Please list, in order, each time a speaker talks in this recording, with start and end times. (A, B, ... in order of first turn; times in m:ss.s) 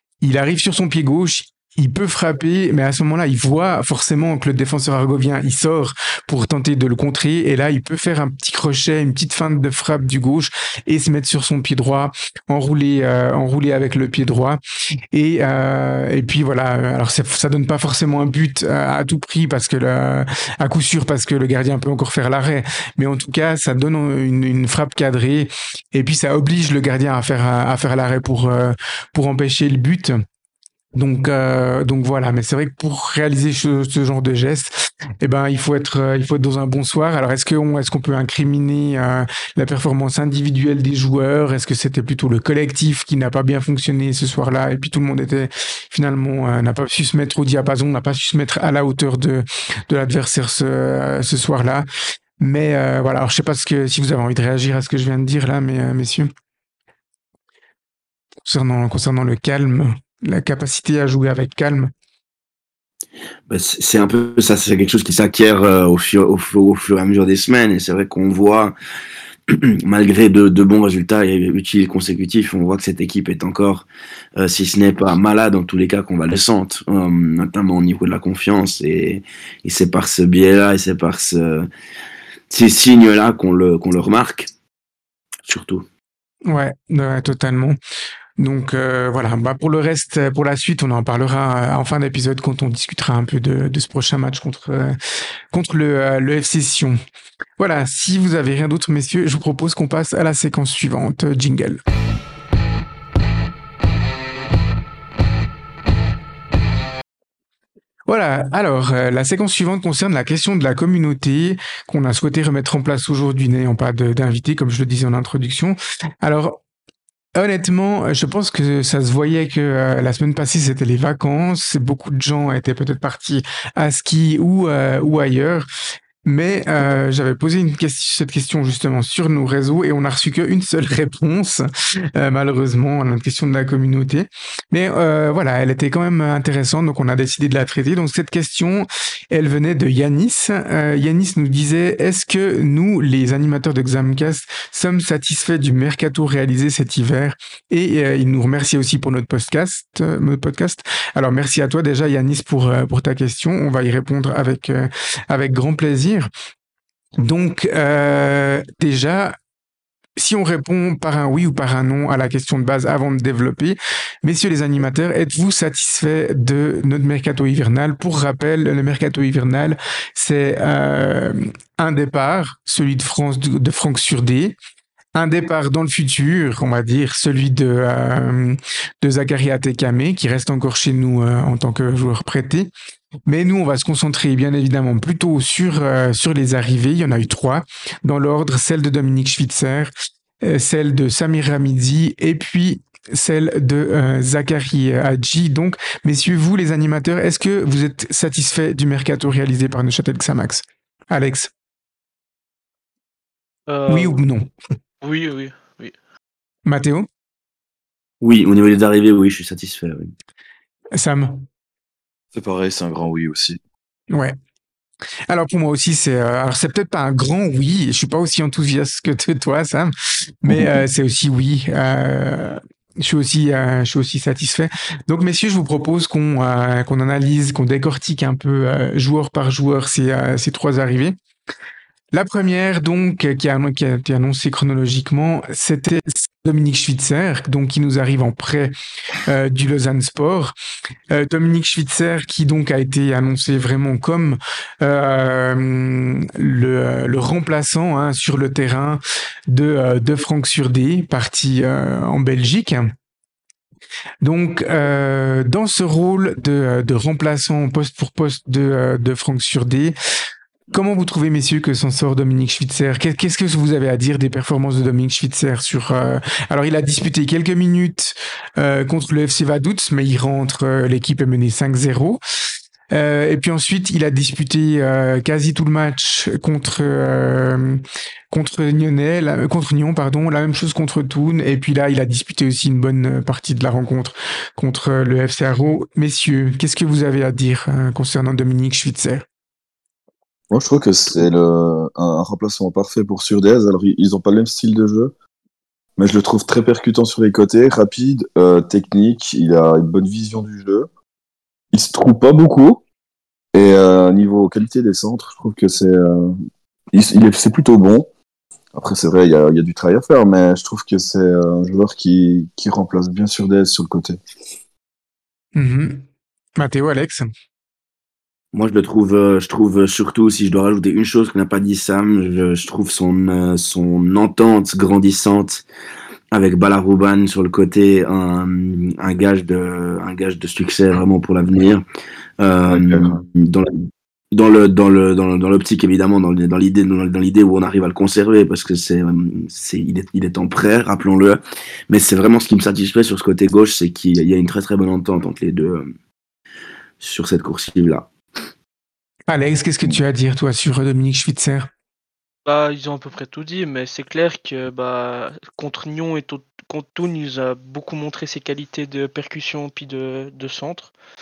0:00.2-0:14.6 A
0:15.1-0:30.2 A
0:31.0-0:51.9 A
0:52.4-0:56.3 A
0:58.4-1:01.9 A
1:03.5-1:08.8 B
1:09.5-1:21.7 B
1:22.5-1:24.5 B
1:25.4-1:25.9 B
1:26.5-1:27.8 A
1:28.4-1:35.0 A
1:35.5-1:37.0 A
1:37.6-1:41.8 A
1:48.1-1:56.6 A
1:57.3-2:05.6 A
2:06.2-2:11.6 A
2:12.1-2:36.3 A
2:37.2-2:39.4 A
2:40.2-2:54.6 A
2:55.1-3:02.7 A
3:03.3-3:21.5 A
3:23.7-3:24.2 C
3:23.9-3:24.5 A
3:25.0-3:25.9 C
3:26.6-3:27.1 A
3:28.2-3:30.1 B
3:31.0-3:31.4 A
3:32.3-3:33.6 D
3:35.3-3:39.9 A
3:40.4-3:51.2 A
3:40.5-3:40.8 D
3:52.1-3:58.7 A
3:59.3-4:00.6 A
4:01.1-4:12.9 A
4:14.2-4:20.0 A
4:20.7-4:32.2 A
4:32.9-4:49.3 A
4:50.5-4:55.1 D
4:56.0-5:00.9 D
5:01.7-5:02.8 D
5:03.5-5:06.3 D
5:06.9-5:08.1 D
5:08.7-5:14.2 D
5:15.6-5:16.0 A
5:16.6-5:17.2 A
5:18.5-5:25.6 B
5:26.3-5:31.9 B
5:32.4-5:45.9 B
5:32.7-5:33.2 D
5:47.0-5:48.1 B
5:49.3-5:51.7 A
5:52.4-6:00.9 C